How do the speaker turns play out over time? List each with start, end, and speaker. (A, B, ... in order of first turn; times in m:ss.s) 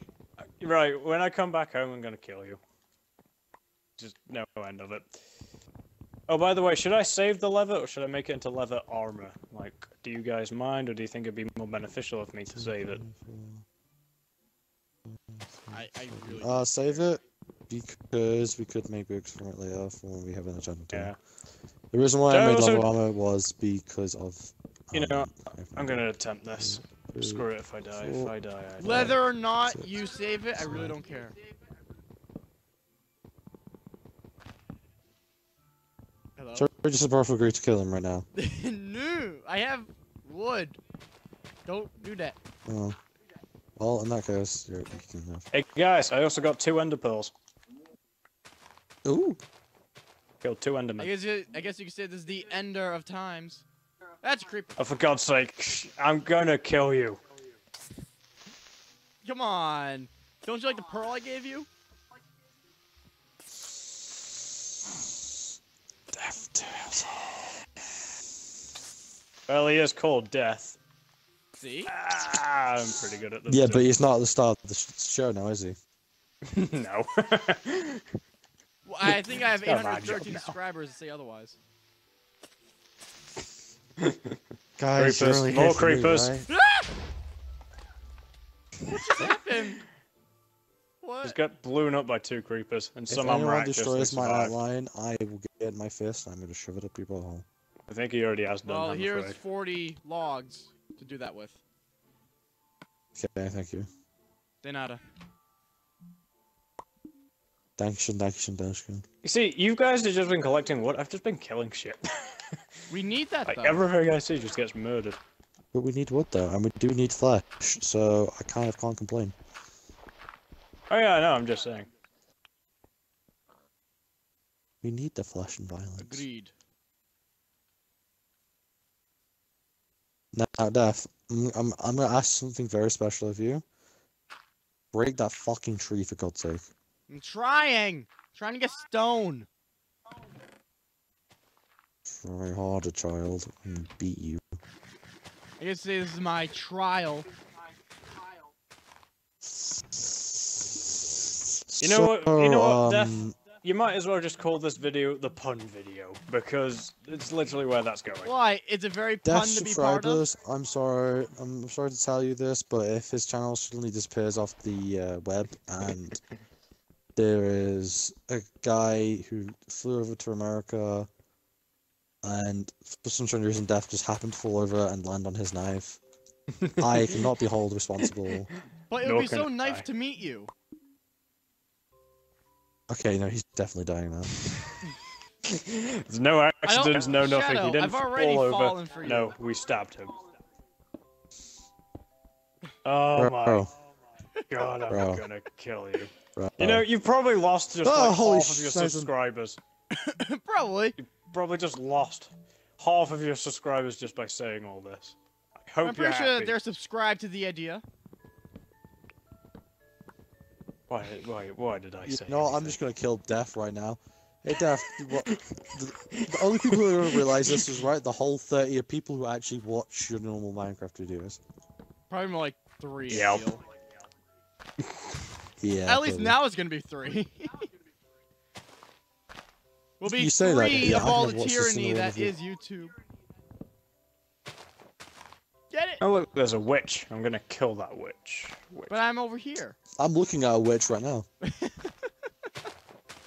0:00.6-0:02.6 A
0:04.0-0:05.1 A
0:06.3-0:13.0 A
0:12.5-0:13.6 B
0:15.1-0:21.1 B
0:15.7-0:17.0 C
0:20.9-0:21.2 A
0:21.9-0:28.3 B
0:22.3-0:22.9 A
0:24.9-0:29.2 A
0:28.8-0:31.3 C
0:28.8-0:29.9 B
0:30.6-0:31.0 B
0:36.4-0:36.7 C
0:36.6-0:38.3 B
0:38.4-0:40.8 C
0:41.6-0:42.4 C
0:42.6-0:43.0 B
0:43.8-0:45.4 B
0:45.5-0:47.3 A
0:49.0-0:49.4 B
0:50.4-0:51.1 A
0:51.0-0:53.6 C
0:54.2-0:54.8 C
0:54.8-0:57.2 A
0:59.2-1:01.7 C
1:06.2-1:07.5 A
1:06.3-1:07.0 B
1:09.5-1:10.8 A
1:11.6-1:11.9 C
1:11.9-1:13.8 A
1:13.5-1:15.8 B
1:16.5-1:18.0 A
1:18.8-1:21.6 C
1:19.0-1:20.6 A
1:24.0-1:24.4 A
1:24.8-1:26.5 B
1:25.0-1:26.4 A
1:26.5-1:26.9 C
1:28.8-1:29.8 C
1:31.0-1:31.4 C
1:31.2-1:34.6 A
1:33.1-1:37.4 B
1:37.9-1:39.4 A
1:38.6-1:41.6 C
1:43.1-1:43.9 B
1:44.6-1:45.0 C
1:47.8-1:49.0 B
1:49.2-1:52.4 A
1:52.9-1:53.9 C
1:53.4-1:55.2 A
1:55.7-1:59.3 B
2:00.9-2:01.9 A
2:04.8-2:06.2 B
2:06.0-2:06.5 C
2:10.3-2:13.6 B
2:14.9-2:16.7 B
2:17.1-2:19.5 C
2:22.0-2:24.5 B
2:25.6-2:27.3 C
2:31.6-2:33.4 B
2:31.8-2:38.3 A
2:38.2-2:40.2 C
2:39.2-2:46.2 B
2:47.2-2:51.1 B
2:52.2-2:56.0 B
2:56.6-2:57.3 A
2:56.8-2:58.5 B
2:58.0-2:58.4 A
2:58.9-3:00.5 C
2:59.0-2:59.8 A
3:02.9-3:04.3 B
3:05.4-3:10.2 A
3:06.6-3:09.3 C
3:12.8-3:13.7 A
3:13.2-3:13.7 B
3:14.5-3:19.6 A
3:14.9-3:15.2 B
3:16.4-3:16.8 B
3:17.8-3:19.1 B
3:19.9-3:21.0 C
3:21.0-3:26.5 A
3:25.8-3:27.8 C
3:30.9-3:32.8 A
3:32.0-3:41.4 B
3:34.6-3:35.4 A
3:36.1-3:37.8 A
3:42.1-3:43.6 C
3:43.1-3:43.4 A
3:45.6-3:46.4 B
3:45.8-3:47.7 C
3:50.0-3:52.9 C
3:50.0-3:52.3 B
3:55.7-3:56.0 C
3:56.0-3:59.0 A
3:58.9-3:59.8 C
4:00.0-4:01.3 B
4:01.4-4:02.1 C